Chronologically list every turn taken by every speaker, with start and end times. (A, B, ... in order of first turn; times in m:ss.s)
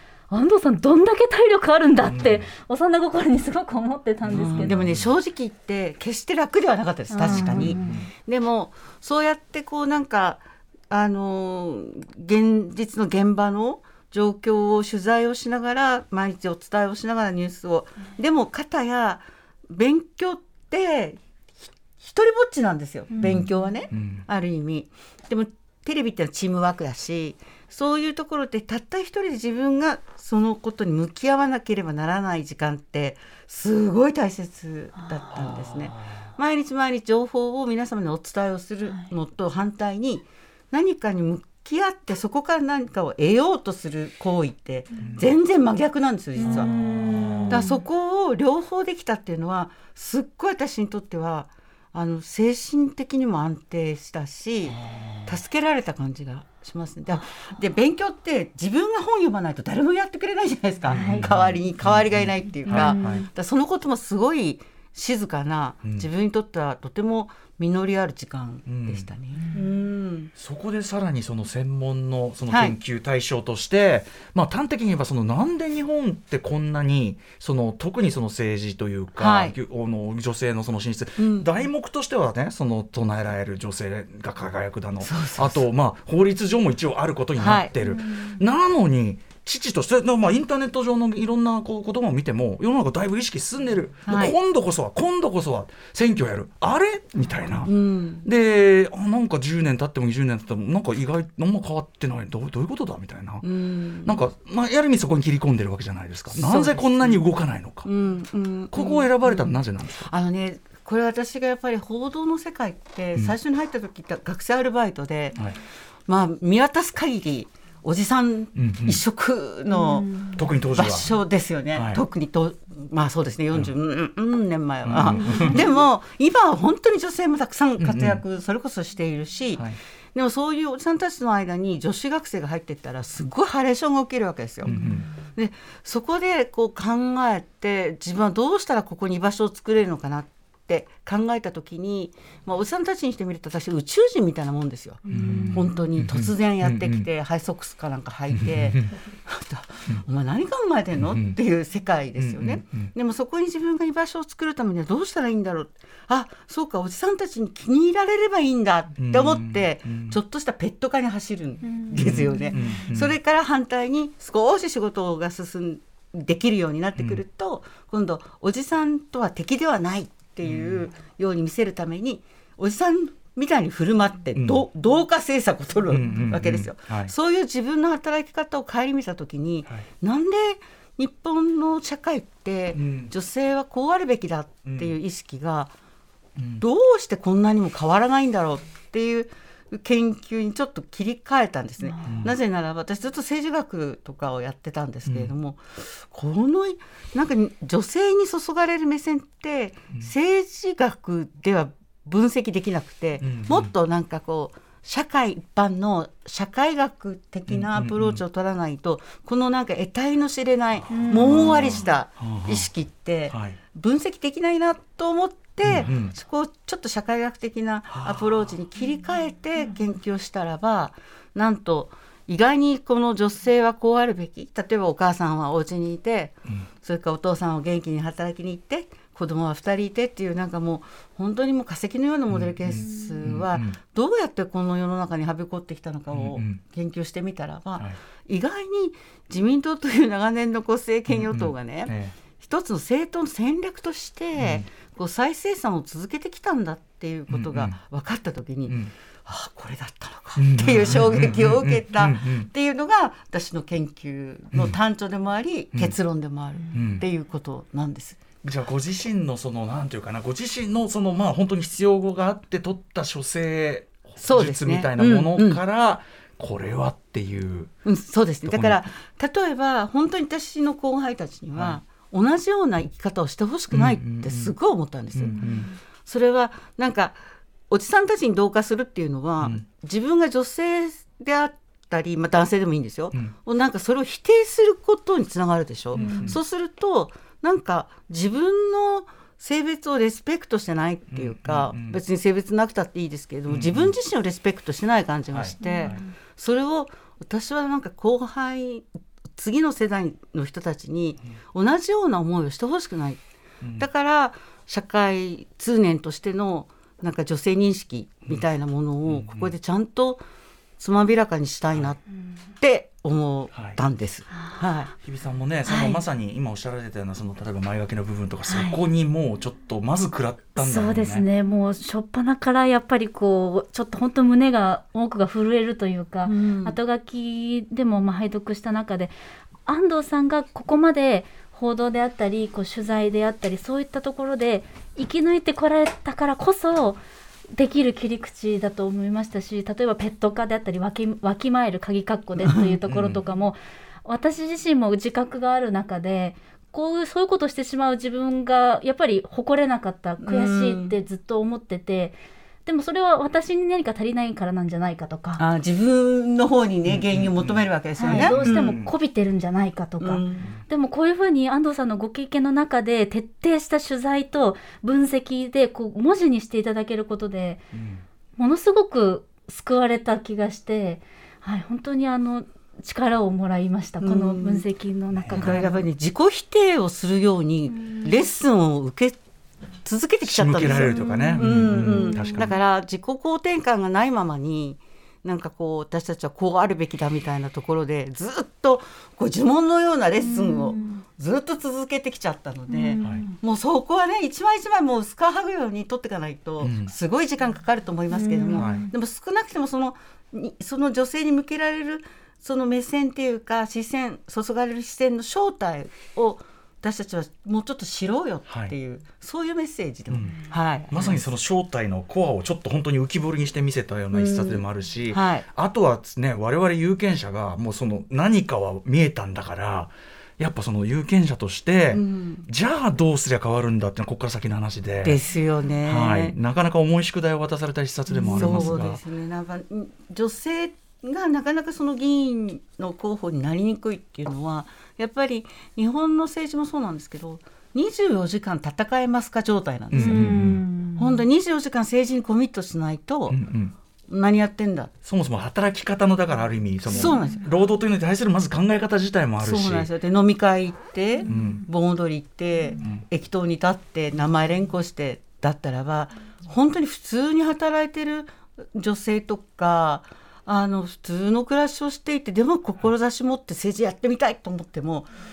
0:00.3-0:04.8 A
0:02.1-0:02.5 B
0:04.3-0:21.2 C
0:04.6-0:05.1 B
0:07.1-0:08.1 A
0:07.3-0:08.1 B
0:22.0-0:46.7 C
0:23.1-0:23.4 A
0:23.2-0:24.2 B
0:35.4-0:36.2 B
0:45.0-0:45.3 B
0:46.4-0:47.8 A
0:46.5-0:47.6 B
0:47.5-1:10.3 C
1:00.9-1:01.3 A
1:00.9-1:03.3 B
1:02.7-1:03.3 A
1:08.7-1:09.1 B
1:10.4-1:43.5 B
1:12.5-1:12.8 C
1:19.2-1:19.6 C
1:21.2-1:21.5 C
1:25.0-1:25.6 C
1:27.4-1:27.7 C
1:27.8-1:28.4 A
1:34.1-1:34.4 C
1:37.6-1:38.2 C
1:43.4-1:44.2 C
1:44.0-1:47.9 B
1:46.3-1:47.2 C
1:47.8-1:49.6 C
1:48.7-1:50.1 B
1:50.1-1:55.4 C
1:56.1-2:00.2 C
1:58.6-1:59.0 B
1:59.7-2:00.4 A
2:00.4-2:01.1 B
2:00.8-2:14.7 C
2:01.8-2:02.0 B
2:04.8-2:05.6 B
2:05.1-2:05.6 A
2:07.8-2:08.2 B
2:14.7-2:15.0 A
2:14.7-2:15.1 B
2:15.4-3:05.7 C
2:25.0-2:25.8 A
2:25.1-2:27.1 B
2:28.3-2:28.9 B
2:31.0-2:31.4 B
2:32.2-2:32.9 B
2:39.0-2:40.2 B
2:41.6-2:42.8 A
2:42.0-2:43.2 B
2:50.4-2:50.8 B
2:54.4-2:54.6 B
2:55.9-2:57.1 B
3:02.7-3:03.1 B
3:04.7-3:05.0 B
3:06.4-3:06.6 B
3:06.6-4:18.2 C
3:11.8-3:12.2 A
3:12.0-3:12.4 B
3:15.1-3:15.3 B
3:23.2-3:23.7 B
3:27.5-3:28.2 B
3:30.9-3:31.8 A
3:31.1-3:32.7 B
3:33.3-3:33.6 B
3:35.6-3:36.1 B
3:37.9-3:38.5 B
3:52.3-3:53.8 B
3:52.8-3:53.1 A
3:56.1-3:56.6 B
4:01.1-4:02.2 B
4:04.4-4:04.7 B
4:07.3-4:07.8 B
4:08.7-4:08.9 B
4:10.4-4:12.5 B
4:16.7-4:17.0 B
4:18.4-4:27.7 B
4:24.2-4:25.6 C
4:27.8-4:35.4 C
4:28.4-4:28.9 B
4:31.6-4:31.8 B
4:33.7-4:34.5 B
4:35.1-4:35.7 B
4:35.4-4:35.7 A
4:36.0-5:03.2 C
4:45.9-4:46.4 B
4:46.0-4:46.4 A
4:51.1-4:52.0 B
4:53.5-4:53.9 B
4:55.3-4:56.0 B
4:55.6-4:56.1 A
5:03.6-5:03.9 B
5:03.8-5:10.2 C
5:09.1-5:09.5 B
5:10.8-5:12.0 C
5:12.6-5:14.9 C
5:13.5-5:13.8 B
5:15.0-5:21.2 B
5:15.7-5:16.0 A
5:18.5-5:18.8 A
5:20.6-5:29.1 A
5:26.3-5:26.8 C
5:29.7-5:37.0 A
5:37.5-5:55.4 A
5:42.4-5:42.7 C
5:42.9-5:43.2 B
5:50.2-5:50.9 C
5:55.4-5:58.4 C
5:56.9-5:58.9 B
5:58.0-6:07.6 A
6:00.0-6:00.5 C
6:07.7-6:08.0 B
6:08.4-6:15.8 A
6:14.0-6:14.7 C
6:15.1-6:15.6 B
6:15.3-6:19.2 C
6:17.7-6:18.1 A
6:19.8-6:51.2 C
6:20.2-6:22.5 B
6:20.6-6:22.5 A
6:30.2-6:31.0 A
6:32.7-6:33.4 A
6:36.6-6:36.9 B
6:38.1-6:38.9 A
6:38.5-6:38.9 B
6:48.5-6:48.7 B
6:50.1-7:05.2 B
6:54.1-6:55.4 C
7:01.9-7:02.5 C
7:05.0-7:06.4 C
7:05.8-7:09.0 B
7:08.2-7:08.7 A
7:08.2-7:23.4 C
7:19.9-7:20.6 B
7:20.0-7:21.2 A
7:23.3-7:23.7 B
7:24.1-7:24.9 C
7:25.0-7:29.9 B
7:26.9-7:27.4 C
7:27.0-7:27.4 A
7:29.4-7:45.1 C
7:31.2-7:31.6 A
7:31.3-7:31.6 B